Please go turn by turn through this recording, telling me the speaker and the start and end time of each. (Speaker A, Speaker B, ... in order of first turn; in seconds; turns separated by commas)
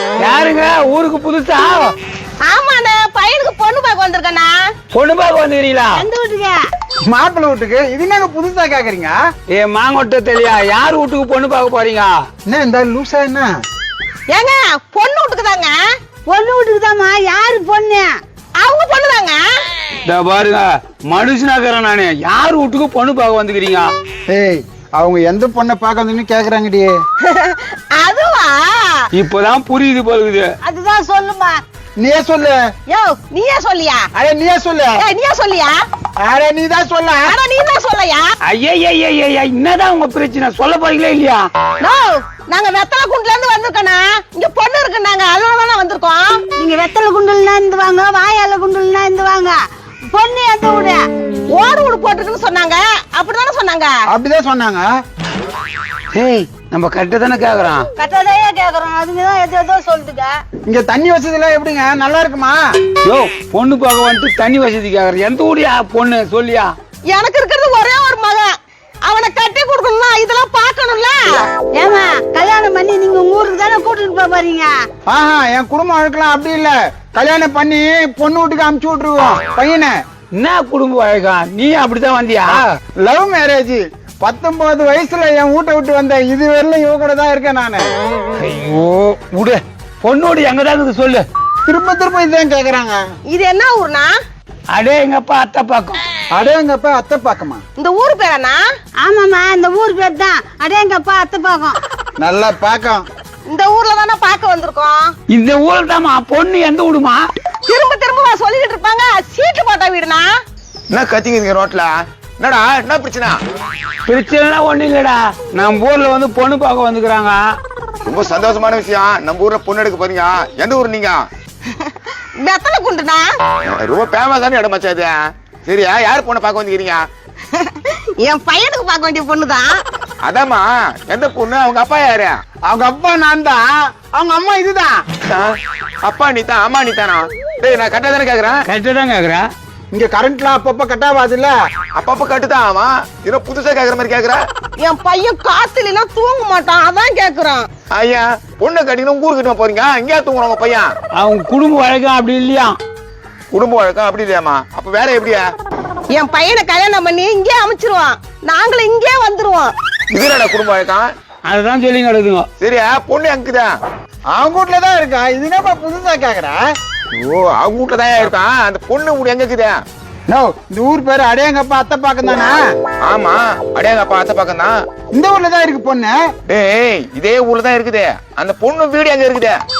Speaker A: 0.2-1.9, Speaker B: 2.4-4.6, Speaker A: 4.9-6.1, Speaker C: 6.0-6.6, Speaker D: 7.1-9.2, Speaker A: 9.5-12.1, Speaker D: 12.5-13.5, Speaker B: 14.3-15.8, Speaker C: 16.3-18.1, Speaker B: 18.6-19.4, Speaker A: 20.1-23.9, Speaker D: 24.3-27.0, Speaker B: 27.2-29.0, Speaker A: 29.1-30.5, Speaker C: 30.6-31.6, Speaker D: 32.0-32.6, Speaker B: 32.9-34.0, Speaker D: 34.1-35.0, Speaker B: 35.0-35.8, Speaker D: 36.2-37.3, Speaker B: 37.2-38.3, Speaker A: 38.5-41.4, Speaker B: 41.8-46.4, Speaker C: 46.5-49.6, Speaker C: 50.1-51.0, Speaker B: 51.5-53.9, Speaker D: 54.1-54.9, Speaker A: 56.1-57.9, Speaker C: 58.0-60.3, Speaker D: 60.7-62.6, Speaker A: 63.0-66.7, Speaker B: 67.1-68.5, Speaker B: 69.0-71.2, Speaker C: 71.7-74.7, Speaker D: 75.1-80.0, Speaker A: 80.3-82.6, Speaker D: 82.5-87.9, Speaker A: 88.4-91.2, Speaker D: 91.7-93.0, Speaker B: 93.3-94.1, Speaker A: 94.7-96.0, Speaker D: 96.3-97.6, Speaker B: 97.8-98.6, Speaker C: 99.0-101.8, Speaker D: 102.2-103.0, Speaker B: 103.5-105.1, Speaker A: 105.3-107.2, Speaker B: 107.7-110.3, Speaker E: 110.9-113.3, Speaker A: 114.1-117.4, Speaker E: 118.1-121.2, Speaker B: 122.4-123.2, Speaker E: 123.7-125.1, Speaker E: 125.6-127.0, Speaker B: 127.6-129.7, Speaker E: 130.2-132.4, Speaker D: 132.7-135.0, Speaker E: 136.0-138.7, Speaker A: 138.7-139.5, Speaker D: 139.9-141.5, Speaker E: 142.0-144.4, Speaker B: 144.8-147.7, Speaker E: 147.9-150.9, Speaker A: 151.2-152.8, Speaker E: 153.5-155.5, Speaker B: 156.1-159.7, Speaker E: 160.1-161.1, Speaker A: 161.5-162.5, Speaker E: 162.6-163.7, Speaker D: 164.3-166.6, Speaker E: 167.1-169.8, Speaker D: 170.3-172.6, Speaker E: 173.1-174.8, Speaker D: 175.1-176.2, Speaker E: 176.5-179.6